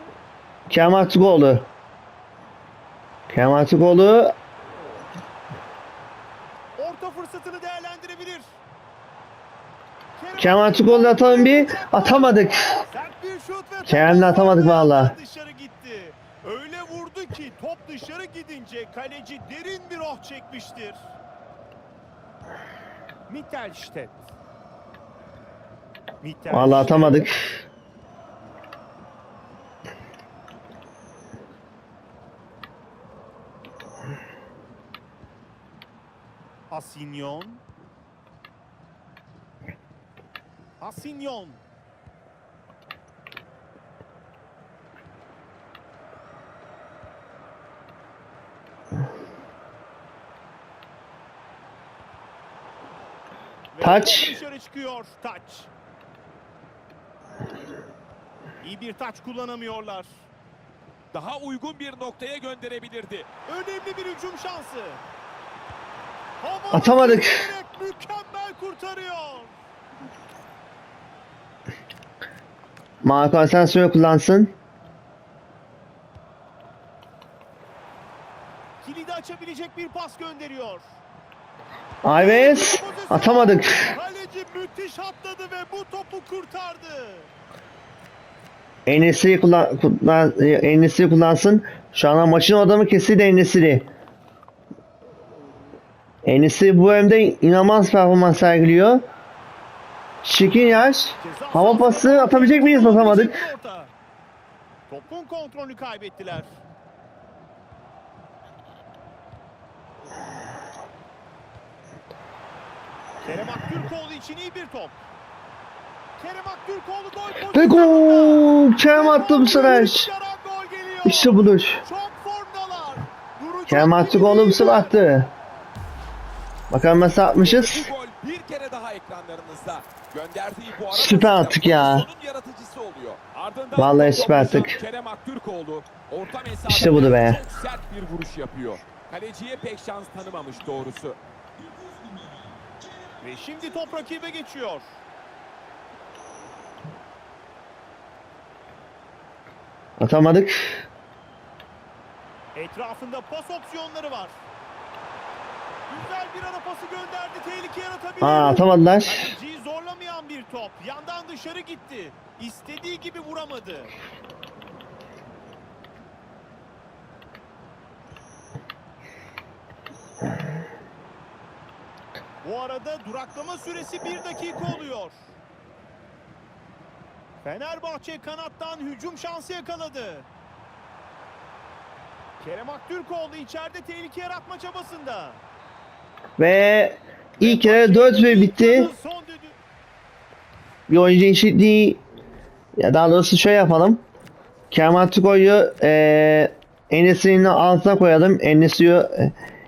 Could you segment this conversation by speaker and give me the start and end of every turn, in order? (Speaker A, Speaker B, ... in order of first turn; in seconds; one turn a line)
Speaker A: 0.7-1.7
Speaker A: 3.3-4.3
Speaker B: 6.8-8.6
Speaker B: 10.2-21.1
Speaker A: 10.4-12.8
Speaker A: 13.9-15.1
Speaker B: 23.3-24.3
Speaker B: 26.2-27.5
Speaker A: 26.5-27.6
Speaker B: 36.7-37.6
Speaker B: 40.8-41.6
Speaker B: 53.7-55.7
Speaker A: 53.8-54.3
Speaker B: 58.6-60.1
Speaker C: 61.1-63.3
Speaker B: 63.5-65.0
Speaker B: 66.4-69.5
Speaker A: 66.7-67.4
Speaker A: 73.0-74.5
Speaker B: 78.8-80.9
Speaker A: 82.0-83.9
Speaker B: 82.1-87.3
Speaker A: 88.9-93.9
Speaker A: 96.2-99.0
Speaker A: 100.2-103.4
Speaker B: 101.2-103.9
Speaker B: 104.9-106.5
Speaker B: 113.2-115.0
Speaker B: 116.2-125.0
Speaker A: 117.5-120.1
Speaker A: 121.0-121.8
Speaker A: 123.7-125.3
Speaker A: 126.7-127.9
Speaker C: 127.3-141.2
Speaker A: 130.9-132.1
Speaker A: 133.8-134.8
Speaker A: 136.7-137.4
Speaker B: 143.2-144.9
Speaker A: 150.0-150.6
Speaker B: 152.5-154.4
Speaker B: 155.9-163.9
Speaker A: 158.2-159.3
Speaker B: 172.4-175.3
Speaker B: 177.4-180.3
Speaker B: 182.4-185.4
Speaker A: 186.4-188.9
Speaker B: 187.4-189.6
Speaker A: 190.9-192.0
Speaker A: 192.8-194.0
Speaker A: 194.7-199.3